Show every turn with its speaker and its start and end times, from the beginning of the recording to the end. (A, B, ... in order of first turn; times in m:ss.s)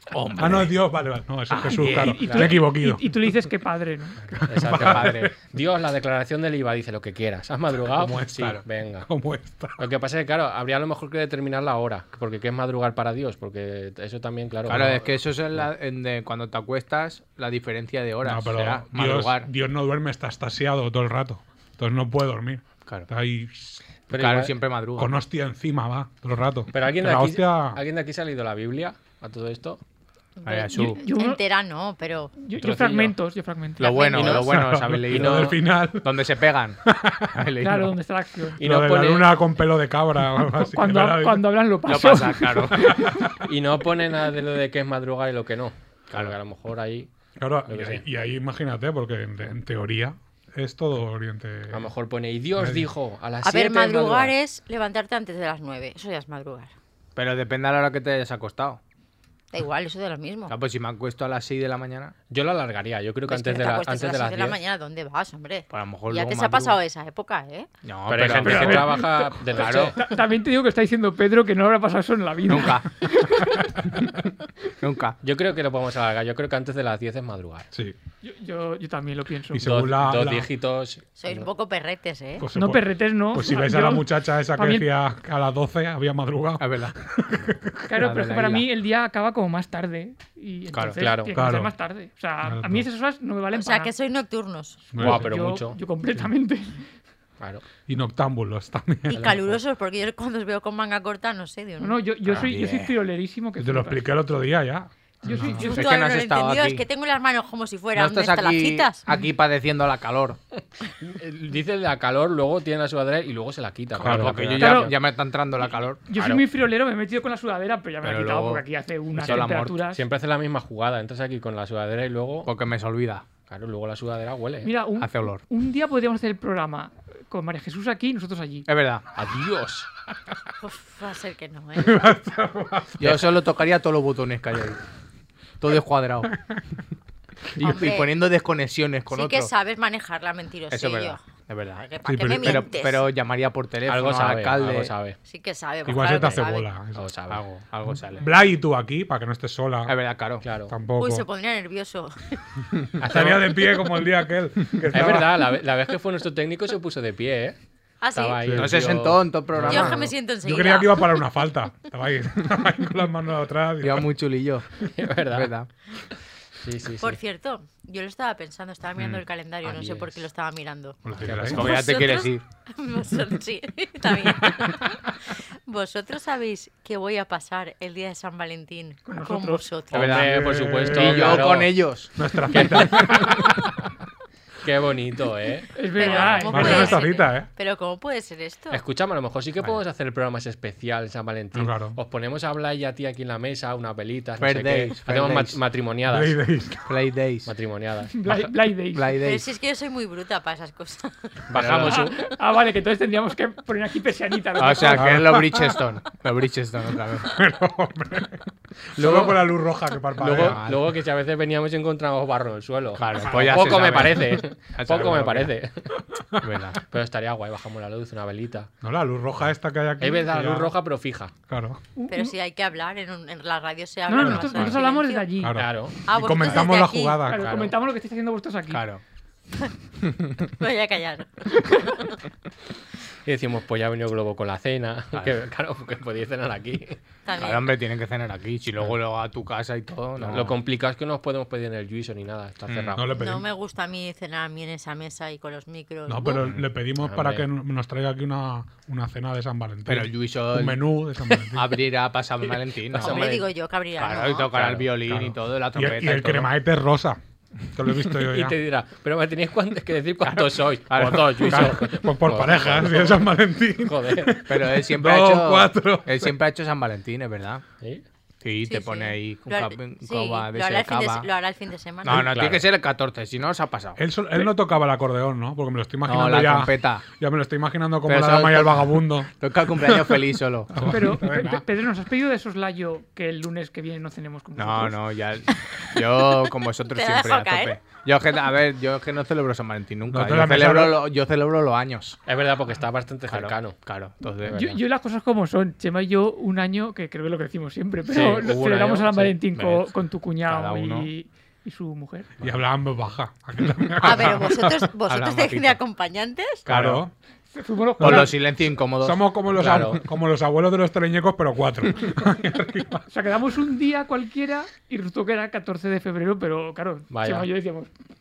0:00.1-0:00.8 A
0:00.4-0:03.1 B
0:01.5-0:02.6 A
0:01.7-0:04.2 C
0:04.4-0:05.4 B
0:04.4-0:09.1 D
0:04.7-0:05.3 A
0:07.9-0:09.8 B
0:09.8-0:15.1 D
0:14.7-0:19.5 A
0:18.2-0:23.9 B
0:24.1-0:24.6 D
0:24.1-0:25.1 A
0:25.0-0:27.8 B
0:26.7-0:29.8 D
0:30.4-0:32.3 E
0:30.4-0:31.0 A
0:30.7-0:31.4 C
0:32.4-0:34.2 C
0:32.6-0:33.1 D
0:33.8-0:35.5 A
0:33.8-0:34.4 E
0:34.1-0:34.5 D
0:34.4-0:36.3 B
0:35.0-0:35.6 D
0:36.0-0:36.8 A
0:36.8-0:37.5 B
0:37.3-0:37.9 A
0:37.6-0:38.6 C
0:38.6-0:41.5 B
0:38.6-0:39.3 D
0:40.5-0:43.2 C
0:41.9-0:42.9 A
0:42.7-0:43.3 B
0:43.4-0:47.1 D
0:47.4-0:51.9 B
0:47.7-0:48.0 D
0:51.7-0:54.3 D
0:52.6-0:52.9 B
0:53.4-0:56.7 E
0:57.2-0:58.8 A
0:59.5-1:00.6 E
1:00.5-1:02.1 A
1:02.3-1:04.6 D
1:03.3-1:07.7 E
1:05.7-1:06.8 A
1:07.8-1:09.0 A
1:08.1-1:10.0 D
1:08.4-1:09.0 C
1:08.7-1:09.3 B
1:09.5-1:10.0 A
1:09.9-1:13.7 C
1:12.5-1:12.9 A
1:14.8-1:15.2 A
1:15.2-1:17.7 D
1:18.2-1:19.7 C
1:19.5-1:20.5 B
1:19.6-1:21.5 D
1:21.2-1:22.5 E
1:22.4-1:27.9 B
1:22.5-1:24.9 C
1:26.6-1:27.0 A
1:27.9-1:33.9 C
1:28.0-1:28.6 A
1:30.7-1:31.0 A
1:31.0-1:31.3 D
1:31.4-1:31.7 B
1:32.4-1:32.9 B
1:33.5-1:34.8 E
1:34.9-1:36.8 C
1:34.9-1:35.3 B
1:35.0-1:35.8 D
1:37.9-1:39.4 B
1:39.1-1:39.6 D
1:39.1-1:42.0 E
1:41.8-1:44.0 C
1:42.3-1:42.9 A
1:43.6-1:45.7 B
1:45.2-1:45.9 C
1:45.7-1:49.0 E
1:45.7-1:46.8 A
1:47.9-1:50.4 A
1:50.9-1:54.9 D
1:54.0-1:54.6 B
1:54.0-1:56.0 A
1:54.6-1:54.9 C
1:56.1-2:00.0 C
1:56.2-1:56.4 D
1:58.0-1:59.8 A
1:59.9-2:02.5 D
2:02.5-2:03.2 A
2:03.5-2:04.7 D
2:04.6-2:08.7 C
2:05.0-2:05.4 A
2:08.7-2:09.0 A
2:09.2-2:09.9 D
2:10.6-2:12.2 E
2:11.8-2:13.3 B
2:13.0-2:14.8 A
2:15.6-2:16.3 A
2:17.6-2:19.5 A
2:17.6-2:18.2 E
2:19.1-2:21.2 E
2:20.7-2:21.9 A
2:21.8-2:23.1 E
2:22.0-2:22.7 B
2:22.4-2:24.9 A
2:23.8-2:25.2 D
2:25.3-2:26.7 E
2:25.8-2:27.0 B
2:27.0-2:27.4 D
2:27.3-2:28.3 A
2:28.2-2:30.0 B
2:29.9-2:30.4 A
2:30.4-2:30.8 D
2:30.6-2:31.3 B
2:31.0-2:32.2 E
2:33.0-2:35.4 B
2:33.0-2:33.6 D
2:34.9-2:37.6 D
2:38.0-2:38.5 E
2:38.1-2:40.1 D
2:38.4-2:38.8 B
2:38.5-2:40.1 A
2:39.5-2:39.9 B
2:39.6-2:41.3 E
2:40.4-2:44.1 B
2:43.8-2:44.6 A
2:44.9-2:45.5 D
2:45.3-2:45.7 A
2:46.6-2:47.2 D
2:47.0-3:00.2 E
2:49.6-2:50.2 D
2:51.0-2:51.7 B
2:51.2-2:52.4 A
2:59.1-2:59.6 C
2:59.9-3:01.8 D
2:59.9-3:02.1 A
3:00.3-3:01.5 B
3:02.2-3:03.8 B
3:02.5-3:03.6 D
3:04.6-3:06.7 D
3:05.8-3:07.1 C
3:06.0-3:08.8 E
3:06.5-3:07.5 B
3:08.7-3:16.4 D
3:11.5-3:12.0 B
3:14.4-3:15.6 A
3:16.1-3:17.0 B
3:16.9-3:17.5 A
3:17.5-3:18.5 D
3:18.2-3:19.1 C
3:18.9-3:19.4 A
3:19.2-3:21.4 E
3:21.5-3:22.2 D
3:21.6-3:22.1 A
3:21.9-3:25.1 C
3:24.6-3:27.4 A
3:24.8-3:25.8 B
3:27.2-3:30.6 B
3:29.0-3:29.4 D
3:30.2-3:30.8 A
3:30.2-3:35.9 D
3:33.0-3:35.5 A
3:33.3-3:34.0 B
3:36.2-3:36.6 B
3:36.4-3:36.8 A
3:36.9-3:38.7 D
3:38.8-3:40.7 B
3:40.0-3:41.3 D
3:41.5-3:41.8 B
3:42.0-3:42.3 C
3:42.1-3:45.3 E
3:44.1-3:45.6 C
3:44.1-3:44.6 B
3:45.4-3:47.5 B
3:45.6-3:46.0 D
3:46.0-3:47.3 E
3:47.2-3:48.9 C
3:47.4-3:47.7 D
3:48.7-3:49.0 A
3:50.4-3:52.1 E
3:53.3-3:57.0 D
3:57.3-3:57.8 E
3:57.4-4:00.6 A
4:00.3-4:03.1 D
4:02.7-4:03.5 B
4:03.1-4:06.5 E
4:06.1-4:11.8 B
4:07.0-4:07.5 D
4:09.9-4:13.3 A
4:12.9-4:13.5 D
4:13.0-4:14.7 E
4:14.0-4:16.5 A
4:14.5-4:14.9 D
4:15.1-4:17.2 B
4:17.7-4:18.6 B
4:18.2-4:23.3 D
4:20.2-4:21.8 A
4:21.4-4:26.3 B
4:23.8-4:24.4 D
4:24.5-4:27.6 A
4:28.4-4:31.3 A
4:28.6-4:32.3 E
4:32.0-4:34.0 A
4:32.1-4:32.7 D
4:34.0-4:41.6 B
4:36.1-4:37.1 A
4:38.1-4:41.3 A
4:40.9-4:45.0 C
4:44.6-4:52.2 A
4:46.0-4:46.2 E
4:46.8-4:47.8 E
4:50.1-4:51.0 B
4:52.3-4:53.8 D
4:53.3-4:54.7 A
4:54.5-4:54.8 D
4:54.5-5:02.3 C
4:58.1-4:59.4 D
4:59.6-4:59.9 A
5:00.4-5:01.1 A
5:02.4-5:04.9 B
5:04.0-5:06.7 E
5:05.1-5:05.8 A
5:06.7-5:07.1 A
5:06.7-5:07.1 B
5:07.5-5:08.4 C
5:08.0-5:08.4 B
5:08.0-5:09.9 A
5:09.0-5:13.1 B
5:09.6-5:10.0 D
5:13.1-5:17.9 C
5:17.1-5:17.5 D